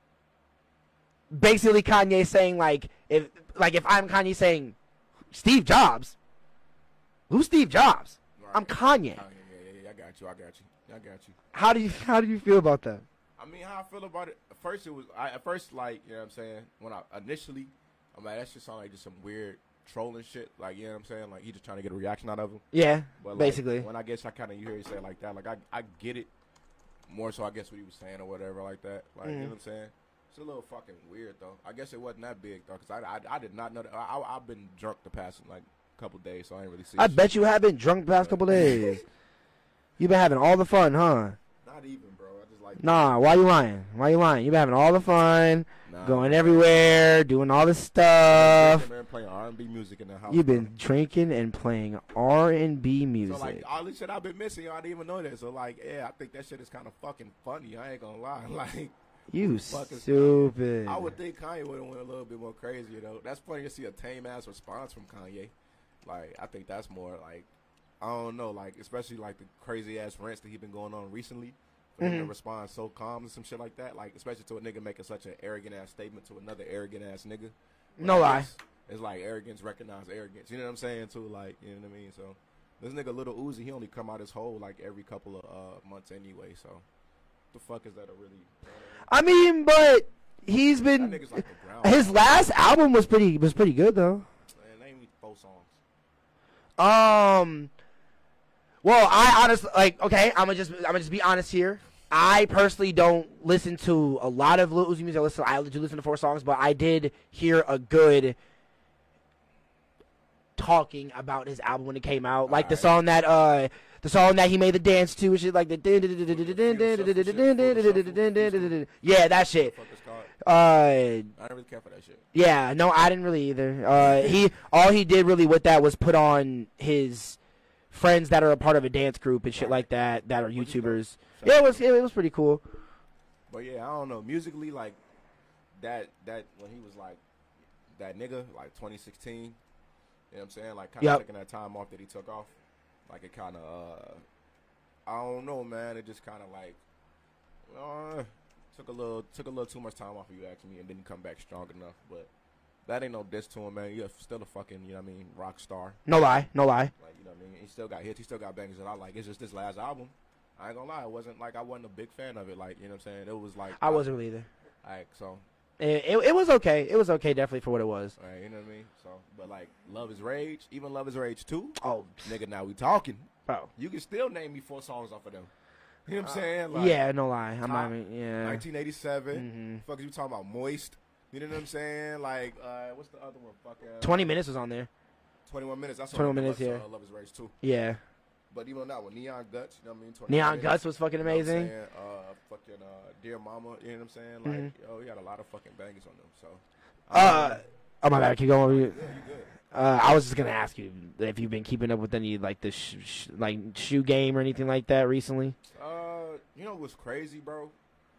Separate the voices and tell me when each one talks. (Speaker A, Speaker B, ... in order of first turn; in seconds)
Speaker A: 1.3-4.8, 5.3-6.2, 7.3-9.2, 11.5-13.1, 22.7-23.9, 29.2-29.5, 37.0-39.0, 40.0-41.4, 42.8-48.9, 50.3-53.6, 59.3-61.1, 72.0-72.3, 78.0-78.5, 89.1-94.3, 96.8-97.7, 98.8-108.4, 110.6-119.7, 120.4-121.3, 122.3-127.4, 127.9-132.6, 156.1-156.9, 163.8-164.5, 165.8-168.2, 171.8-172.3, 176.2-178.6, 179.3-179.8, 184.0-184.9, 186.1-186.8, 187.6-188.0, 190.3-191.7, 194.4-194.7, 197.1-199.0, 199.7-205.6
Speaker B: 8.4-11.4, 13.4-22.6, 23.2-26.3, 27.1-37.3, 38.2-39.0, 41.6-43.2, 45.9-47.1, 48.2-50.7, 53.2-65.5, 66.0-67.5, 68.0-86.8, 87.5-89.1, 91.0-92.4, 94.6-95.8, 112.5-113.0, 116.3-118.8, 119.3-120.3, 121.4-122.2, 124.0-124.3, 129.6-129.9, 130.6-131.8, 133.5-135.0, 135.8-137.2, 137.9-139.6, 140.3-142.6, 143.1-144.2, 145.1-146.8, 147.7-152.3, 152.8-156.0, 157.0-164.1, 164.8-165.4, 168.2-175.5, 176.1-177.0, 177.6-184.3, 185.5-187.5, 188.5-197.6, 198.7-199.5, 205.7-207.8